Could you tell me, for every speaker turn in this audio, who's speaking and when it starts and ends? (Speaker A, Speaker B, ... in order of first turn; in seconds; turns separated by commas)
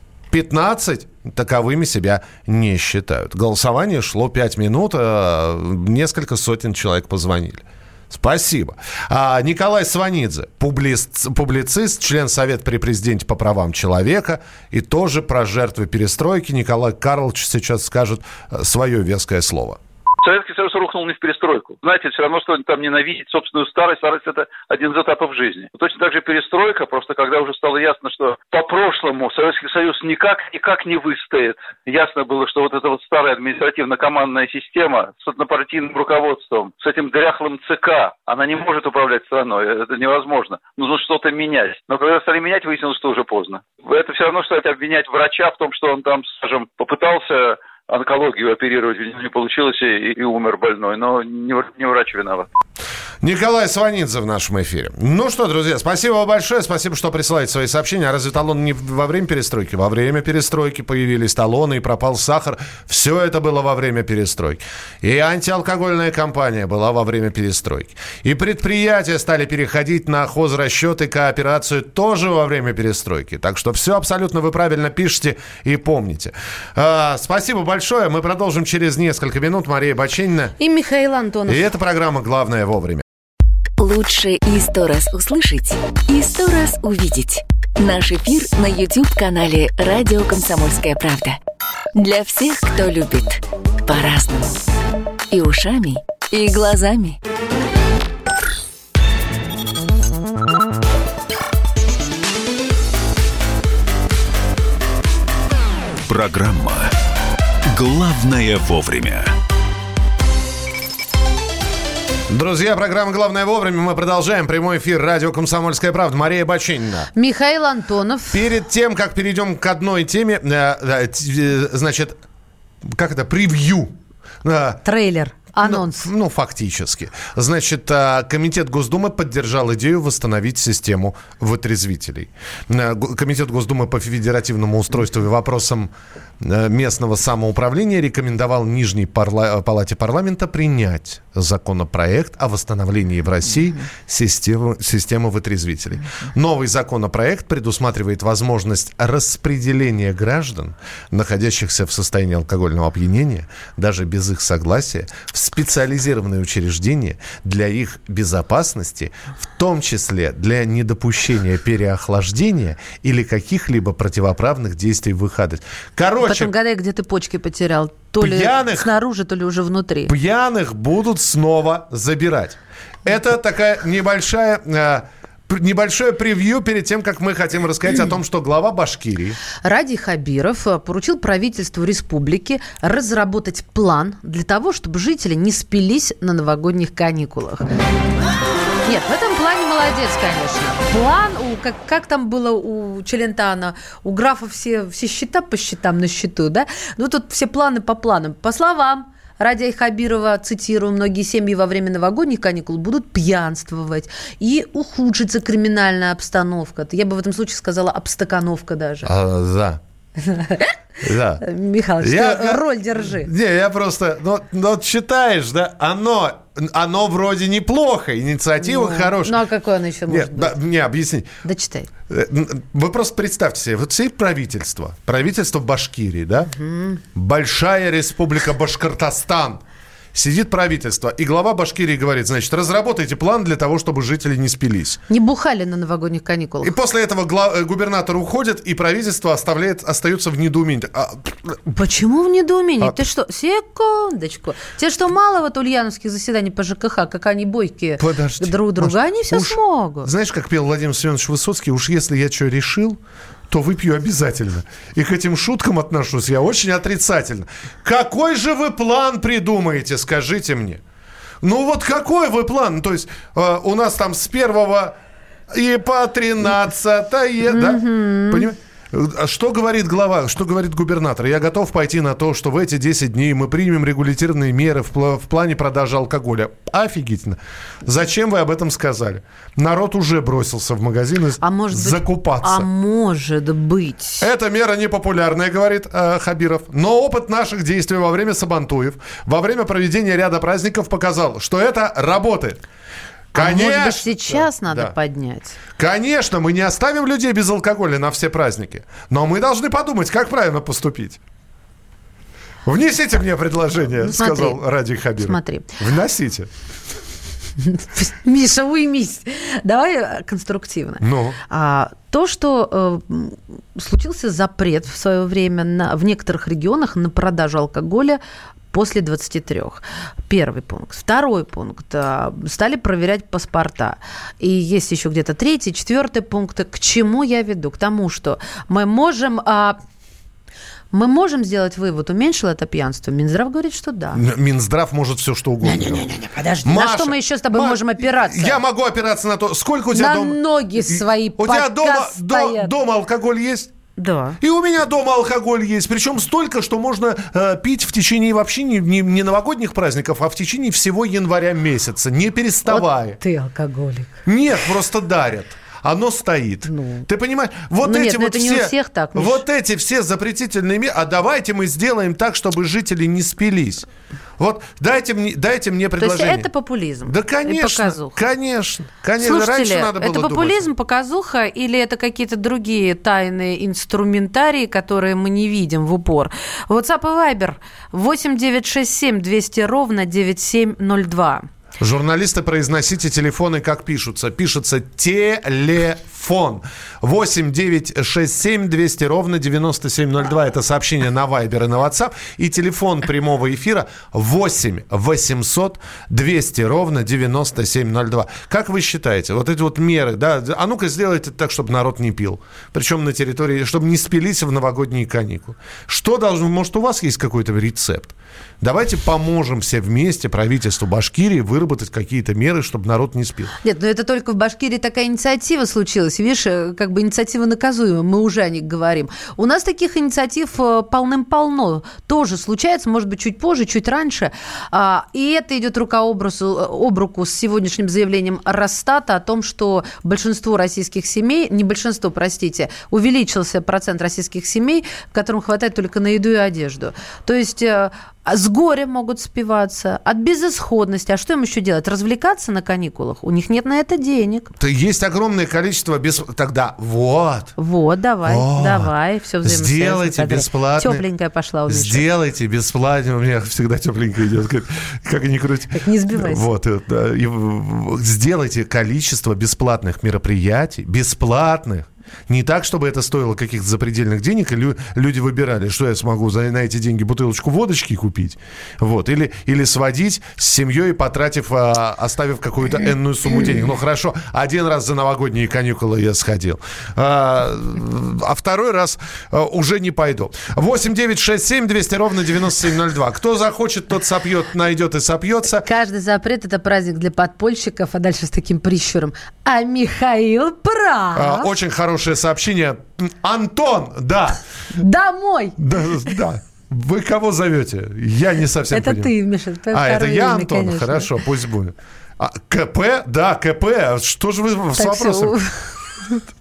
Speaker A: 0.3-19.8, Speaker B: 20.2-52.5, Speaker A: 53.2-80.5, Speaker C: 80.6-81.6, Speaker A: 81.5-83.0, Speaker D: 83.8-91.4, Speaker D: 92.0-94.5, Speaker D: 95.3-97.2, Speaker E: 106.1-106.9, Speaker E: 107.7-109.3, Speaker A: 112.3-117.1, Speaker C: 117.1-118.5, Speaker A: 118.3-122.2, Speaker A: 122.8-124.8, Speaker C: 124.8-126.1, Speaker A: 125.6-166.5, Speaker C: 166.2-170.1, Speaker A: 168.2-168.9, Speaker A: 170.1-179.4, Speaker C: 179.6-187.7, Speaker C: 188.8-209.1, Speaker A: 209.0-209.8, Speaker C: 210.2-210.7, Speaker A: 211.0-211.4, Speaker C: 211.4-213.3, Speaker A: 212.0-219.4, Speaker C: 218.6-220.6, Speaker A: 220.1-221.3, Speaker C: 221.4-221.9, Speaker A: 222.1-226.5, Speaker C: 226.5-227.0, Speaker A: 227.1-229.6, Speaker A: 230.1-235.0, Speaker C: 235.1-236.8, Speaker A: 236.6-241.6, Speaker C: 241.7-250.1, Speaker A: 248.0-260.8, Speaker A: 261.4-264.9, Speaker A: 265.5-282.6, Speaker C: 267.4-268.5, Speaker C: 281.4-284.3, Speaker A: 284.2-292.6, Speaker A: 293.3-294.9, Speaker C: 293.3-295.6, Speaker A: 295.8-301.2, Speaker A: 302.6-306.5, Speaker C: 304.0-304.6, Speaker C: 305.2-305.7, Speaker C: 307.6-318.2, Speaker A: 311.0-311.4, Speaker C: 318.7-329.8, Speaker C: 330.9-334.2, Speaker A: 334.1-336.1, Speaker C: 335.6-338.6, Speaker A: 336.6-343.7, Speaker C: 339.9-342.7, Speaker C: 344.0-344.4, Speaker A: 344.4-353.2, Speaker C: 352.7-354.2, Speaker A: 354.3-363.9, Speaker C: 356.7-357.1, Speaker C: 357.8-359.4, Speaker A: 364.4-366.5, Speaker C: 366.0-368.2, Speaker A: 367.1-370.7, Speaker C: 369.2-381.5, Speaker A: 381.8-413.5, Speaker C: 413.6-444.5, Speaker A: 444.6-447.6, Speaker C: 447.6-452.1, Speaker A: 448.2-448.9, Speaker A: 449.4-451.0, Speaker A: 451.7-485.6, Speaker C: 455.7-456.4, Speaker C: 485.6-491.5, Speaker A: 491.1-494.4, Speaker C: 494.8-495.6, Speaker A: 495.6-499.1, Speaker C: 498.7-501.1, Speaker A: 499.7-505.4, Speaker C: 504.8-506.1